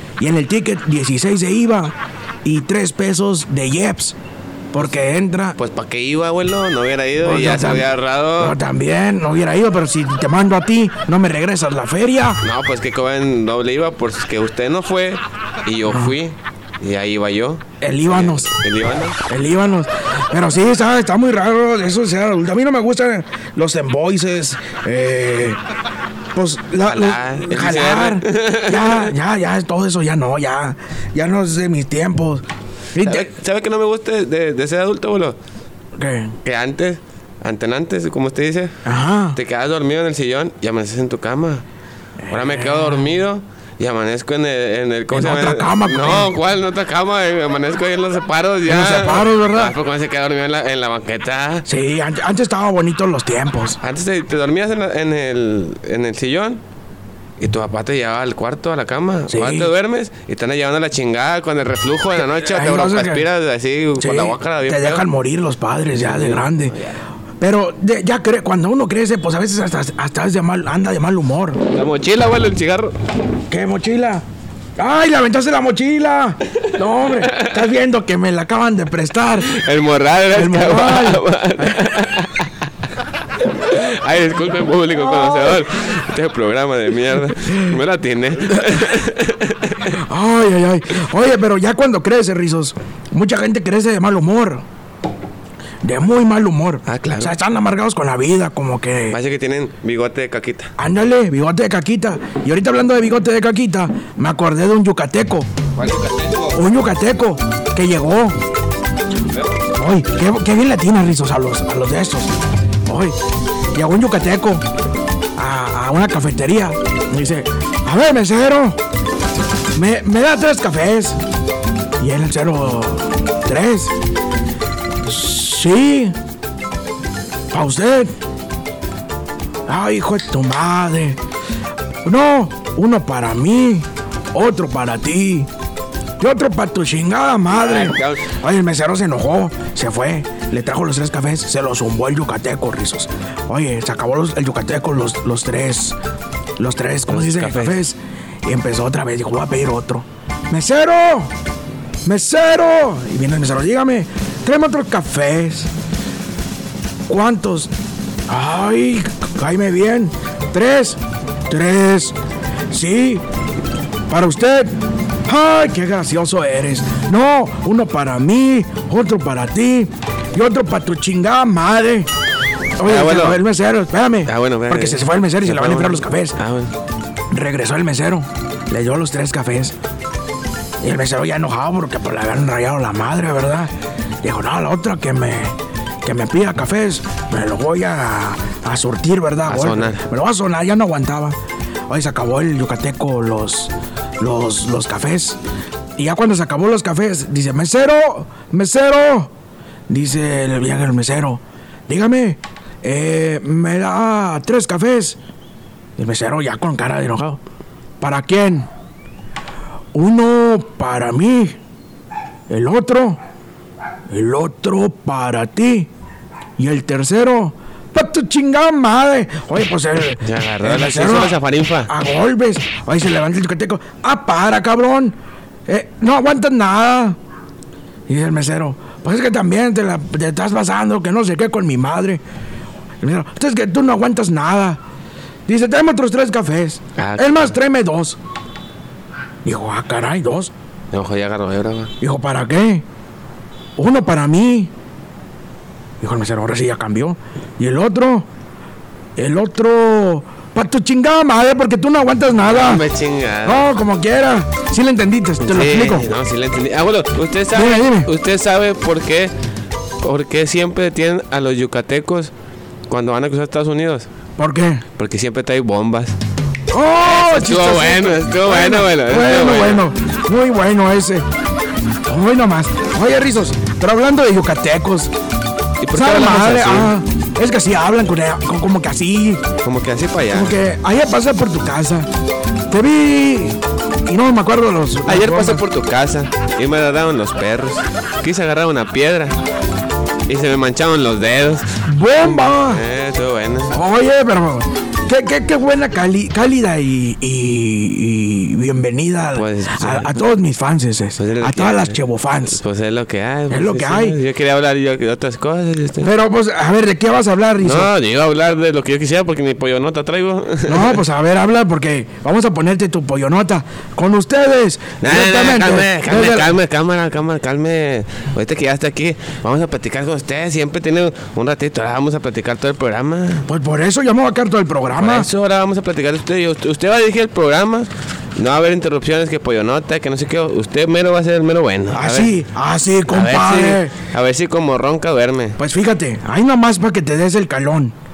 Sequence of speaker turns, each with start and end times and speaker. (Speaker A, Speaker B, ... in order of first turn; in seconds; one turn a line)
Speaker A: 0.2-4.2
Speaker A: 4.7-5.6
Speaker B: 5.6-8.6
Speaker A: 7.2-12.4
Speaker B: 12.4-19.2
Speaker A: 15.9-16.1
Speaker A: 17.8-18.5
Speaker A: 19.3-25.6
Speaker A: 26.3-32.4
Speaker B: 26.8-29.1
Speaker A: 33.0-33.3
Speaker B: 33.0-35.4
Speaker A: 36.0-36.4
Speaker B: 36.4-38.8
Speaker A: 38.9-39.4
Speaker B: 39.3-41.6
Speaker A: 42.2-43.1
Speaker B: 42.3-51.6
Speaker A: 45.1-46.3
Speaker A: 48.6-49.8
Speaker A: 51.6-53.8
Speaker B: 53.8-56.6
Speaker B: 57.4-65.0
Speaker A: 59.3-59.7
Speaker A: 62.3-63.3
Speaker A: 64.0-66.8
Speaker B: 66.0-67.0
Speaker A: 67.4-71.6
Speaker B: 71.7-73.0
Speaker A: 73.5-74.2
Speaker A: 74.8-79.5
Speaker B: 77.1-77.6
Speaker B: 79.4-82.6
Speaker A: 80.3-81.8
Speaker B: 83.5-90.0
Speaker A: 87.5-87.8
Speaker A: 89.9-94.6
Speaker A: 95.8-99.2
Speaker B: 96.9-97.3
Speaker B: 99.1-100.7
Speaker A: 100.8-105.5
Speaker B: 105.8-106.6
Speaker A: 106.5-108.4
Speaker B: 109.3-109.6
Speaker A: 109.8-112.3
Speaker A: 112.9-113.2
Speaker A: 113.7-114.7
Speaker A: 115.4-118.8
Speaker A: 119.8-121.2
Speaker A: 122.0-124.0
Speaker A: 125.0-126.2
Speaker A: 127.5-128.1
Speaker A: 129.7-131.2
Speaker A: 132.0-135.5
Speaker A: 136.2-146.0
Speaker B: 137.5-138.3
Speaker A: 146.6-151.3
Speaker B: 147.1-147.8
Speaker A: 152.0-155.7
Speaker A: 157.1-157.7
Speaker A: 158.3-162.2
Speaker A: 162.7-163.2
Speaker A: 164.1-172.1
Speaker A: 172.8-176.4
Speaker B: 172.8-173.4
Speaker B: 174.2-176.7
Speaker A: 177.3-179.8
Speaker A: 180.8-191.4
Speaker B: 189.5-190.1
Speaker A: 191.9-195.4
Speaker A: 196.0-199.3
Speaker A: 199.9-205.2
Speaker A: 206.0-207.4
Speaker A: 208.0-208.7
Speaker A: 209.9-211.6
Speaker A: 212.5-213.2
Speaker A: 214.1-215.9
Speaker A: 216.6-225.2
Speaker B: 220.2-221.9
Speaker A: 225.7-227.2
Speaker A: 228.1-232.2
Speaker A: 233.0-234.8
Speaker A: 235.5-238.2
Speaker B: 237.0-237.5
Speaker A: 239.4-240.5
Speaker B: 240.9-241.9
Speaker A: 242.0-242.8
Speaker A: 243.8-244.7
Speaker A: 246.0-248.3
Speaker A: 249.2-252.8
Speaker B: 252.4-253.7
Speaker A: 253.4-256.1
Speaker B: 255.4-259.3
Speaker A: 257.5-258.1
Speaker B: 260.0-262.3
Speaker B: 262.9-264.1
Speaker A: 264.4-264.9
Speaker B: 265.0-266.2
Speaker A: 266.7-271.3
Speaker B: 267.0-269.9
Speaker A: 272.1-275.1
Speaker B: 275.8-276.9
Speaker A: 275.9-279.5
Speaker B: 279.6-280.5
Speaker A: 280.3-282.1
Speaker A: 282.7-285.6
Speaker B: 285.1-289.4
Speaker B: 290.3-293.8
Speaker A: 291.9-292.8
Speaker A: 293.7-302.6
Speaker B: 299.4-300.2
Speaker B: 301.2-306.1
Speaker A: 303.5-304.2
Speaker A: 306.0-307.9
Speaker B: 307.6-311.0
Speaker A: 310.6-316.5
Speaker B: 315.0-323.5
Speaker A: 323.5-325.3
Speaker B: 324.9-332.4
Speaker A: 331.9-333.9
Speaker B: 333.1-335.6
Speaker A: 335.6-337.9